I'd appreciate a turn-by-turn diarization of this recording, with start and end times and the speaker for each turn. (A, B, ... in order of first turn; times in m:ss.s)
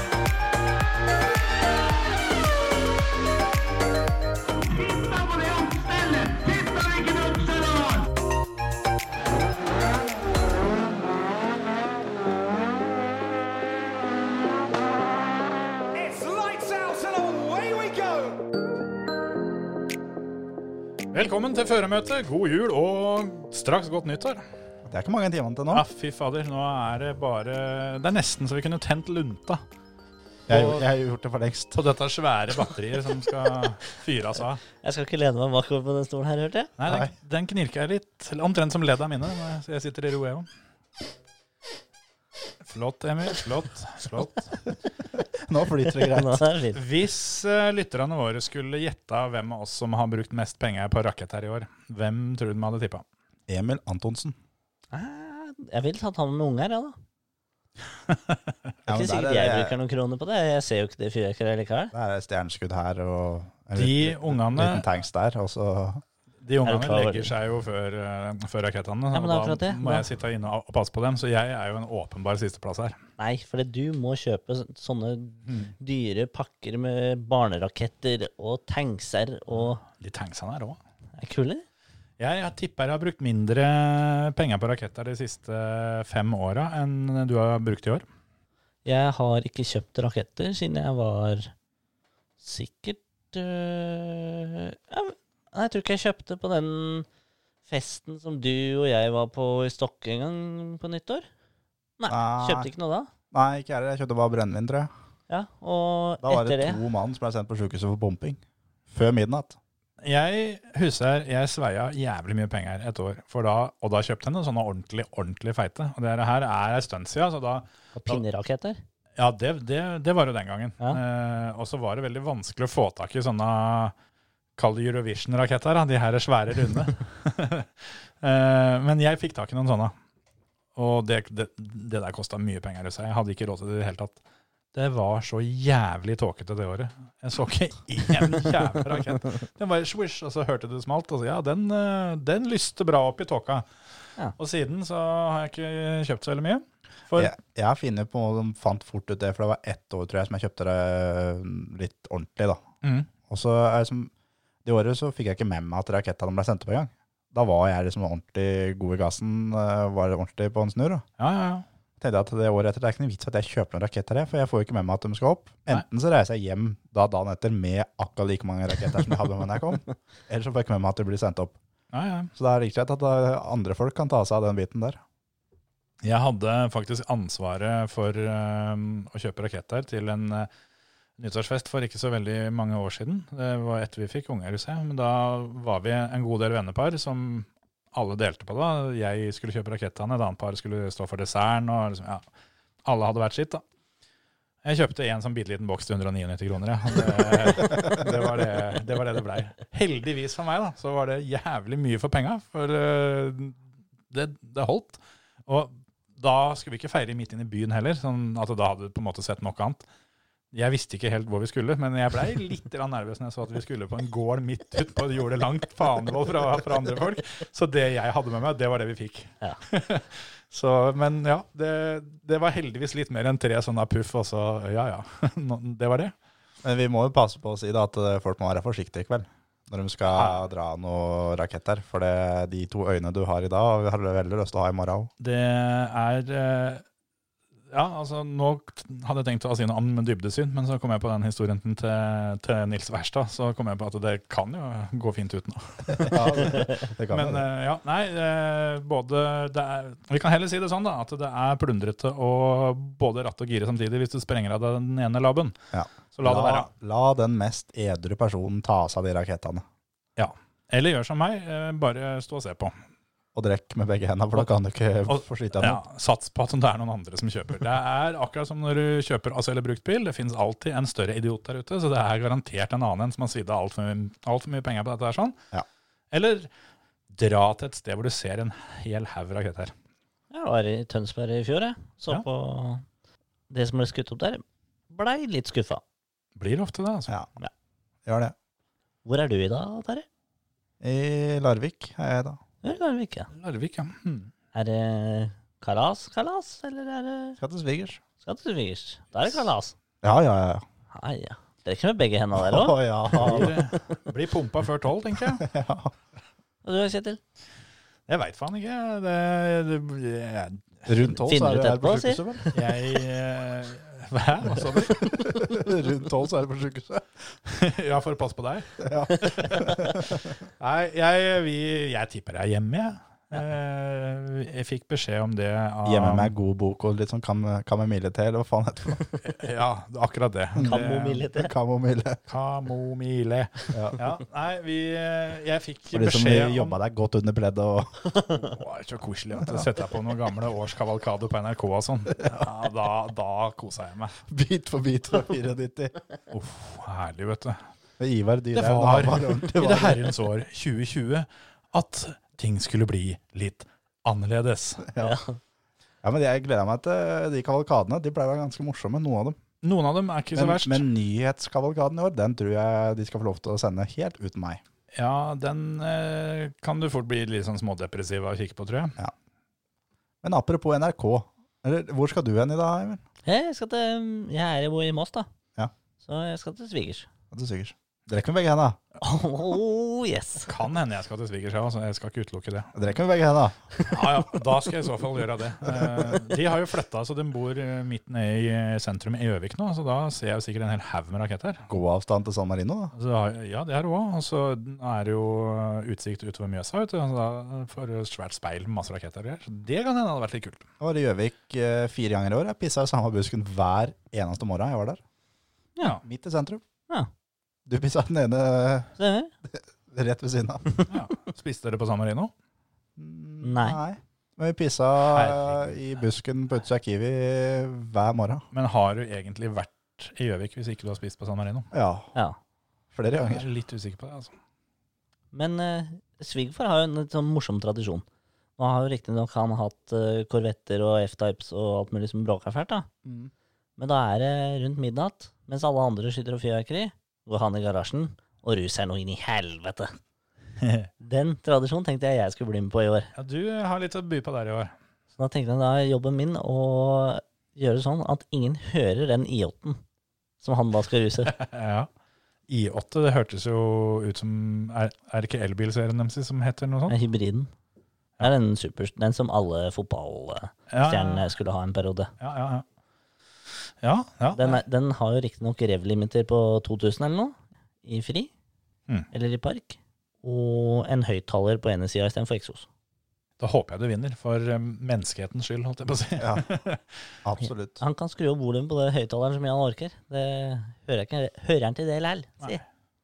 0:04.7-0:08.1 A
0:15.9-0:18.4 A
0:21.1-0:24.4 B
0:24.8-0:25.8 C
0:25.7-0:29.6 B
0:30.5-0:30.9 B
0:30.5-0:31.8 C
0:31.7-0:34.6 B
0:34.8-0:36.7 D
0:36.8-0:40.5 B
0:36.8-0:37.1 C
0:42.6-0:44.5 B
0:45.2-0:46.4 C
0:46.0-0:46.8 D
0:46.7-0:53.0 B
0:53.5-0:54.4 C
0:54.9-0:57.0 D
0:58.1-0:58.4 B
0:58.8-0:59.7 C
0:58.9-1:01.9 D
1:01.9-1:06.0 C
1:03.7-1:04.9 B
1:06.4-1:13.0 B
1:06.6-1:07.3 D
1:09.1-1:10.0 D
1:13.2-1:19.8 D
1:19.6-1:20.8 B
1:21.2-1:21.6 D
1:22.2-1:28.0 B
1:28.8-1:31.5 D
1:32.4-1:37.1 D
1:37.7-1:41.3 D
1:42.0-1:43.1 D
1:42.1-1:42.7 C
1:43.3-1:44.9 C
1:45.3-1:46.8 D
1:46.2-1:49.6 C
1:50.0-1:58.2 B
1:58.0-1:58.8 D
1:59.2-2:03.9 B
2:04.6-2:09.9 B
2:10.7-2:14.2 B
2:14.7-2:23.7 B
2:24.4-2:27.3 B
2:27.2-2:32.6 C
2:32.8-2:33.1 B
2:33.3-2:34.1 C
2:34.6-2:41.0 C
2:41.2-2:41.6 B
2:42.0-2:51.6 C
2:51.9-2:52.3 B
2:52.3-2:55.0 C
2:56.0-3:00.5 B
3:01.2-3:12.2 B
3:12.8-3:13.6 B
3:14.6-3:23.6 B
3:24.1-3:29.8 B
3:30.5-3:46.1 B
3:46.6-3:55.1 C
3:50.1-3:50.4 B
3:55.2-3:56.8 B
3:57.7-4:15.6 B
4:06.0-4:07.4 C
4:15.7-4:19.6 C
4:16.1-4:16.7 B
4:20.2-4:22.8 B
4:23.3-4:25.8 C
4:25.1-4:35.4 B
4:36.1-4:36.5 B
4:37.1-4:39.7 B
4:40.3-4:42.8 D
4:43.5-4:45.8 D
4:46.4-4:47.1 B
4:48.0-4:48.3 C
4:49.0-4:50.0 D
4:50.8-4:52.4 C
4:52.6-4:53.3 D
4:53.3-4:54.3 B
4:54.5-4:57.4 D
4:57.4-4:58.0 C
4:58.2-4:59.7 D
5:00.0-5:00.6 C
5:00.9-5:04.0 D
5:02.4-5:03.5 C
5:03.1-5:05.4 B
5:05.3-5:05.9 C
5:06.6-5:07.2 D
5:08.1-5:10.8 B
5:10.8-5:12.5 C
5:11.0-5:12.5 D
5:12.5-5:15.1 B
5:14.4-5:17.1 C
5:17.4-5:26.3 B
5:18.8-5:20.3 C
5:25.8-5:29.0 C
5:29.2-5:31.2 B
5:30.5-5:30.8 C
5:30.6-5:31.5 D
5:31.3-5:32.2 C
5:32.3-5:36.8 B
5:33.7-5:34.0 C
5:35.9-5:38.0 C
5:38.3-5:44.2 B
5:39.4-5:39.7 C
5:44.3-5:46.0 C
5:46.3-5:47.6 B
5:48.0-5:50.1 C
5:48.5-5:54.9 B
5:54.9-5:55.2 C
5:55.0-5:55.4 D
5:56.0-5:59.4 C
5:59.6-6:00.8 B
6:00.3-6:04.6 C
6:04.9-6:09.0 B
6:10.2-6:13.0 C
6:13.2-6:15.3 D
6:16.0-6:17.1 D
6:17.3-6:18.8 C
6:19.0-6:20.5 D
6:20.5-6:22.8 B
6:22.7-6:23.6 C
6:23.8-6:31.6 B
6:25.6-6:26.2 C
6:31.7-6:32.9 C
6:32.9-6:40.7 B
6:40.8-6:45.0 C
6:46.0-6:46.6 C
6:47.6-6:48.9 C
6:49.0-6:49.3 D
6:49.5-6:50.8 C
6:50.9-6:52.3 B
6:53.0-6:58.4 C
6:53.4-6:53.8 D
6:55.0-6:55.8 B
6:58.5-7:01.7 B
7:01.7-7:02.1 C
7:02.9-7:03.4 C
7:03.2-7:04.3 B
7:05.3-7:08.0 D
7:08.6-7:12.9 D
7:13.0-7:13.3 C
7:13.8-7:20.0 D
7:20.6-7:20.9 B
7:21.0-7:23.1 D
7:23.2-7:24.7 B
7:25.2-7:29.8 D
7:30.4-7:31.3 D
7:31.2-7:31.9 B
7:32.5-7:37.0 B
7:36.9-7:37.5 D
7:38.2-7:42.1 D
7:40.7-7:41.3 B
7:42.2-7:42.6 B
7:43.8-7:44.6 B
7:44.3-7:48.3 D
7:49.1-7:52.7 D
7:53.4-7:57.0 B
7:56.2-7:56.5 C
7:57.2-7:57.8 C
7:57.8-8:02.6 D